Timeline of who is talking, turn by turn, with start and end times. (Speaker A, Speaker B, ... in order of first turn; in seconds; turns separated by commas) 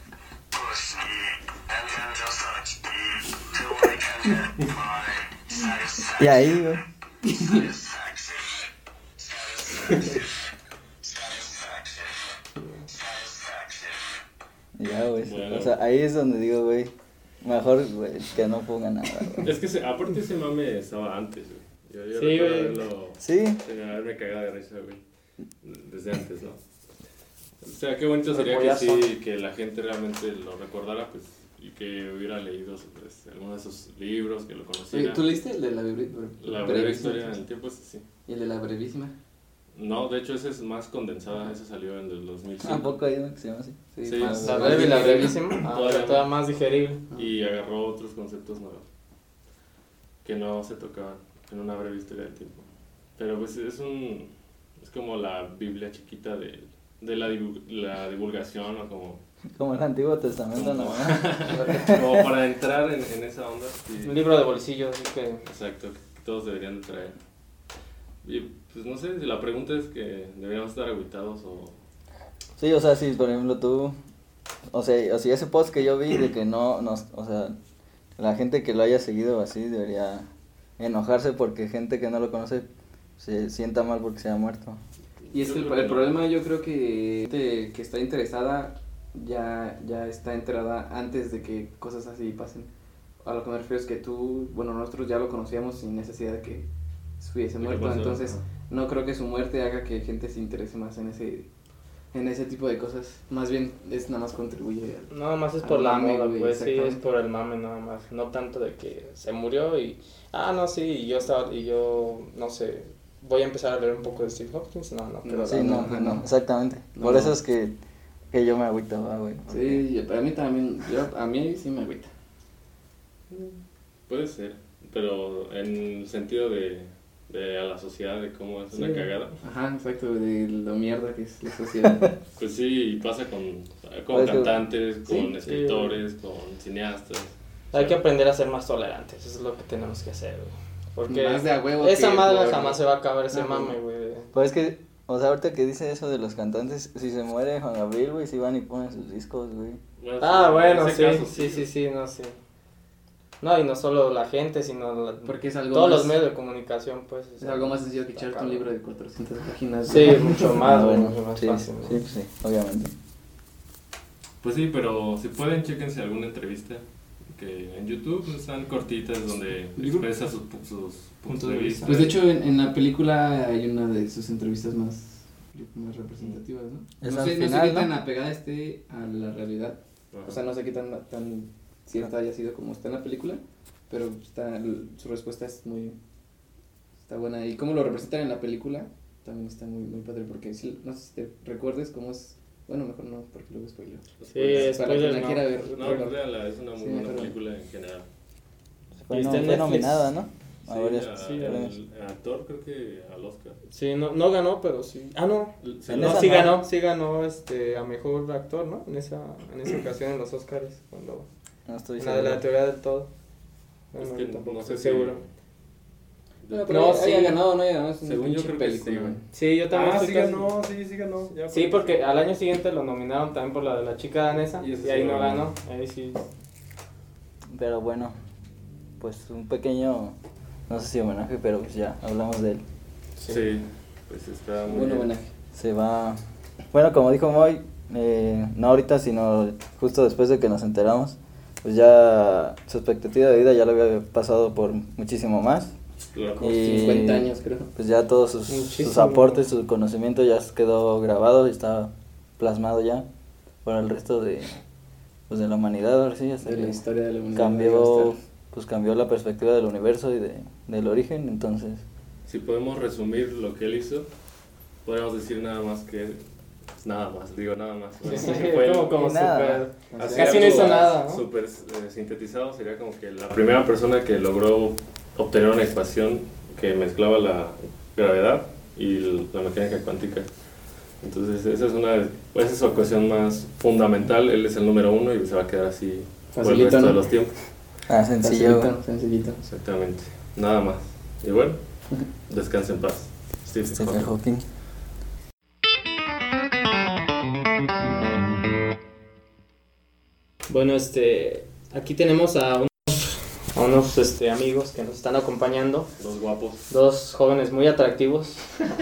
Speaker A: 0.5-6.4, Speaker B: 6.2-6.8, Speaker C: 7.4-7.6, Speaker A: 7.4-8.6, Speaker A: 9.2-10.2, Speaker A: 11.0-12.3, Speaker A: 12.9-14.0, Speaker B: 14.8-19.5, Speaker D: 15.2-15.7, Speaker D: 19.4-25.0, Speaker E: 22.1-22.8, Speaker B: 23.2-23.6, Speaker D: 25.6-26.6, Speaker D: 27.6-35.2, Speaker E: 28.3-29.1, Speaker C: 34.9-37.4, Speaker D: 36.4-38.0, Speaker C: 38.2-39.1, Speaker D: 39.8-43.0, Speaker B: 42.6-44.8, Speaker C: 43.9-45.4, Speaker D: 44.0-46.3, Speaker E: 44.4-47.0, Speaker D: 47.1-48.8, Speaker D: 50.2-52.6, Speaker D: 53.2-59.2, Speaker B: 59.5-62.3, Speaker D: 60.5-64.2, Speaker E: 64.0-65.4, Speaker D: 65.5-67.2, Speaker D: 68.2-71.8, Speaker B: 72.6-74.0, Speaker B: 74.7-77.5, Speaker B: 78.2-80.3, Speaker B: 80.8-82.7, Speaker B: 83.2-84.8, Speaker D: 85.3-86.1, Speaker C: 85.3-92.7, Speaker C: 93.2-96.7, Speaker C: 97.2-101.5, Speaker D: 97.6-98.4, Speaker C: 102.1-107.0, Speaker E: 105.1-115.9, Speaker C: 115.2-116.3, Speaker B: 115.4-117.7, Speaker C: 116.9-117.3, Speaker B: 118.3-119.8, Speaker C: 119.5-122.1, Speaker D: 123.3-129.4, Speaker C: 129.4-132.1, Speaker D: 132.4-137.9, Speaker B: 134.1-134.6, Speaker C: 135.1-135.3, Speaker E: 135.4-136.0, Speaker E: 137.7-144.3, Speaker C: 141.1-142.8, Speaker C: 143.3-143.7, Speaker B: 144.3-149.8, Speaker D: 150.0-151.7, Speaker E: 150.2-152.4, Speaker E: 153.4-158.7, Speaker C: 155.2-156.2, Speaker C: 157.4-160.6, Speaker E: 159.9-162.0, Speaker B: 160.6-162.9, Speaker D: 164.4-166.8, Speaker D: 167.3-172.2, Speaker C: 169.8-170.1, Speaker E: 171.3-172.1, Speaker C: 171.7-185.9, Speaker B: 177.0-177.9, Speaker D: 180.1-180.4, Speaker C: 187.1-196.2, Speaker D: 194.2-194.8, Speaker E: 194.3-195.9, Speaker D: 195.7-198.1, Speaker C: 196.8-197.3, Speaker B: 199.0-201.7, Speaker E: 199.1-200.1, Speaker D: 200.7-203.6, Speaker E: 201.2-201.5, Speaker E: 203.7-211.3, Speaker D: 205.6-206.5, Speaker B: 205.9-206.6, Speaker B: 211.7-212.4, Speaker E: 212.0-213.1, Speaker E: 213.9-215.2, Speaker D: 214.0-215.2, Speaker D: 216.4-217.3, Speaker C: 216.5-219.2, Speaker E: 216.7-217.4, Speaker D: 218.0-219.2, Speaker E: 219.3-220.5, Speaker D: 219.7-222.0, Speaker E: 221.5-226.2, Speaker D: 224.6-225.5, Speaker B: 227.5-228.2, Speaker B: 229.0-230.2, Speaker B: 230.7-232.6, Speaker D: 233.3-235.1, Speaker C: 234.7-235.3, Speaker B: 235.5-245.7, Speaker D: 246.1-246.4, Speaker C: 246.4-247.7, Speaker B: 246.4-253.1, Speaker E: 248.5-249.4, Speaker B: 253.6-254.6, Speaker B: 255.3-256.8, Speaker C: 256.4-258.2, Speaker B: 257.3-261.8, Speaker D: 262.2-264.1, Speaker D: 264.8-266.2, Speaker D: 266.8-269.0, Speaker E: 268.1-271.2, Speaker B: 268.9-269.6, Speaker C: 269.9-270.8, Speaker D: 269.9-280.3, Speaker D: 281.0-287.4, Speaker C: 286.3-287.0, Speaker B: 287.9-288.7, Speaker C: 288.2-289.4, Speaker D: 289.4-291.6, Speaker D: 292.3-294.1, Speaker B: 293.7-294.4, Speaker E: 300.5-305.9, Speaker D: 306.0-306.6, Speaker E: 306.7-308.4